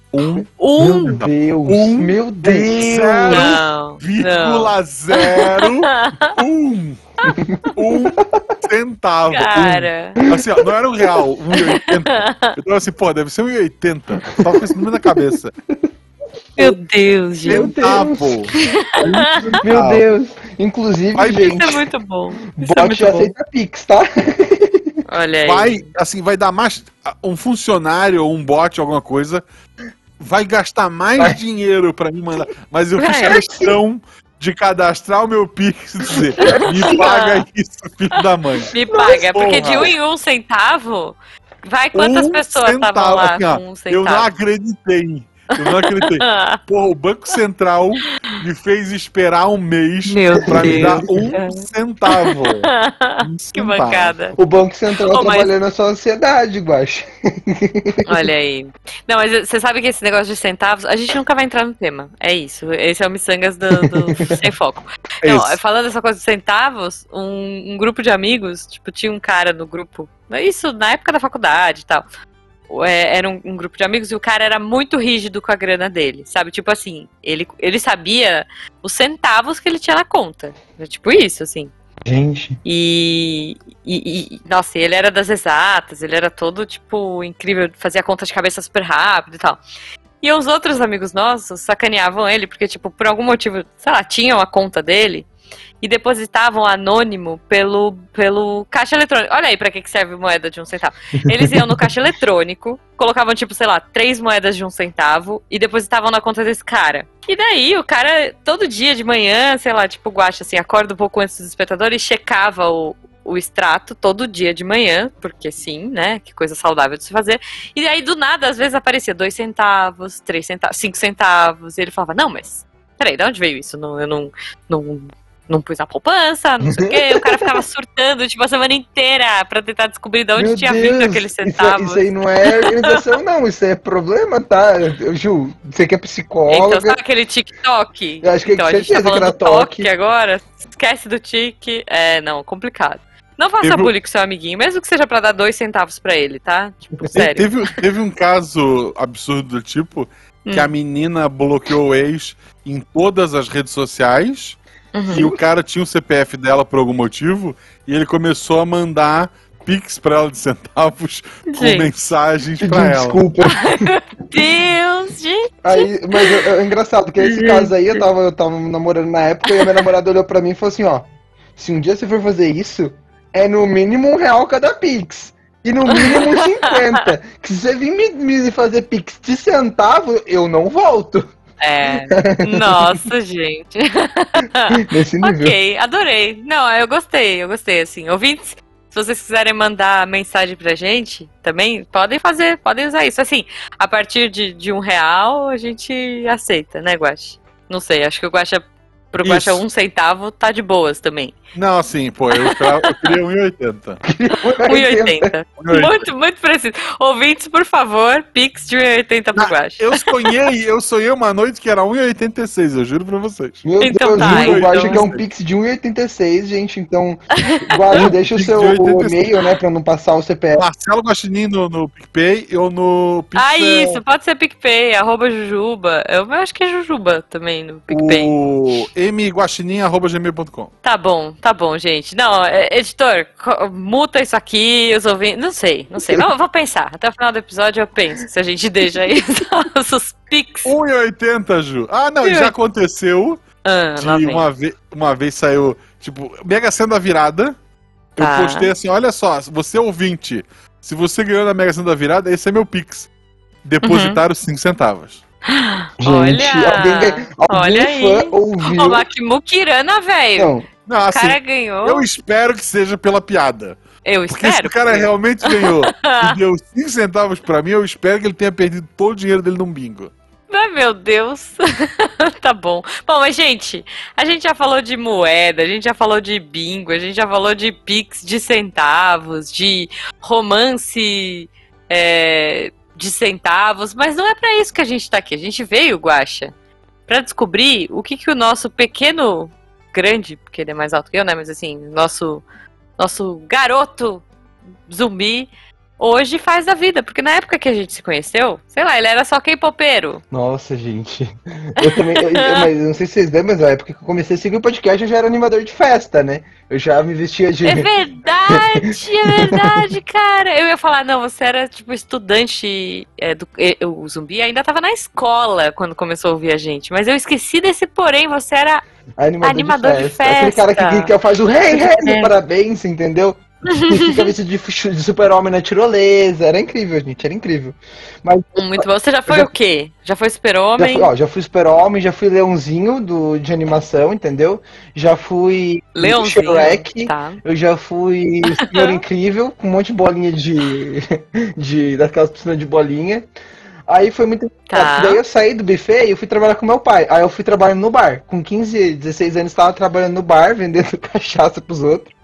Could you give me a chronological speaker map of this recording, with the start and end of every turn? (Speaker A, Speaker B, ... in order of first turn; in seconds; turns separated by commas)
Speaker A: 0.1-0.5, Speaker B: 0.6-1.2, Speaker C: 0.8-3.6, Speaker A: 1.1-7.0, Speaker B: 3.3-6.4, Speaker C: 7.3-8.4, Speaker A: 7.8-15.5, Speaker B: 9.3-10.2, Speaker B: 11.6-12.6, Speaker C: 14.9-15.3, Speaker B: 16.6-17.7, Speaker A: 17.4-20.0, Speaker C: 17.4-18.5, Speaker B: 18.7-19.6, Speaker C: 19.0-21.8, Speaker A: 21.1-21.7, Speaker B: 21.4-23.3, Speaker C: 22.6-24.9, Speaker B: 25.1-25.9, Speaker A: 25.4-29.4, Speaker A: 30.2-39.9, Speaker B: 33.0-33.5, Speaker C: 33.2-33.8, Speaker C: 36.1-37.0, Speaker B: 36.4-37.4, Speaker B: 38.7-44.3, Speaker C: 38.9-39.9, Speaker A: 42.0-54.1, Speaker B: 45.6-46.6, Speaker B: 48.1-48.4, Speaker B: 50.1-54.4, Speaker C: 50.4-51.2, Speaker C: 54.4-58.1, Speaker B: 55.1-55.5, Speaker B: 58.1-72.1, Speaker A: 65.2-65.6, Speaker B: 72.7-81.7, Speaker C: 82.0-82.6, Speaker B: 82.7-89.6, Speaker B: 90.2-95.3, Speaker B: 95.8-133.0, Speaker C: 101.2-101.6, Speaker C: 126.6-127.6, Speaker C: 130.4-137.0, Speaker B: 136.5-147.5, Speaker C: 138.2-139.9, Speaker A: 143.6-143.9, Speaker C: 146.9-147.2, Speaker A: 147.1-154.6, Speaker B: 150.4-150.7, Speaker B: 154.9-155.2, Speaker A: 155.1-163.2, Speaker C: 155.1-155.4, Speaker B: 161.5-161.9, Speaker C: 162.6-163.9, Speaker B: 163.6-166.5, Speaker C: 165.6-181.3, Speaker B: 167.2-168.0, Speaker B: 175.9-177.1, Speaker B: 181.6-201.3, Speaker C: 182.1-183.1, Speaker C: 184.7-185.6, Speaker A: 199.2-199.6, Speaker A: 201.5-204.0, Speaker B: 202.3-203.2, Speaker C: 204.0-205.3, Speaker B: 204.6-210.3, Speaker A: 205.6-206.0, Speaker A: 209.3-213.6, Speaker C: 213.6-220.7, Speaker B: 213.8-215.0, Speaker A: 214.2-215.2, Speaker B: 217.4-218.1, Speaker A: 217.9-219.4, Speaker A: 220.6-224.0, Speaker B: 223.4-228.8, Speaker A: 227.9-230.7, Speaker B: 230.8-240.7, Speaker A: 240.7-243.4, Speaker B: 242.2-242.5, Speaker B: 243.6-244.5, Speaker A: 244.0-247.6, Speaker A: 248.2-253.1, Speaker B: 248.2-248.7, Speaker A: 253.6-255.2, Speaker B: 253.8-254.2, Speaker B: 255.5-260.6, Speaker C: 256.0-259.1, Speaker C: 260.4-260.7, Speaker A: 260.9-263.8, Speaker B: 261.1-262.1, Speaker B: 264.0-266.4, Speaker A: 264.3-270.1, Speaker B: 270.5-286.5, Speaker B: 287.1-292.4, Speaker B: 293.0-294.2, Speaker B: 294.9-300.2, Speaker C: 300.3-307.9, Speaker B: 301.8-302.7, Speaker B: 307.6-318.8, Speaker C: 308.5-309.8, Speaker C: 319.2-329.5, Speaker B: 319.4-321.1, Speaker B: 321.7-322.3, Speaker B: 323.7-324.3, Speaker B: 328.6-331.1, Speaker C: 330.8-343.3, Speaker B: 335.9-337.4, Speaker B: 338.5-339.0, Speaker C: 343.9-352.1, Speaker B: 344.7-345.2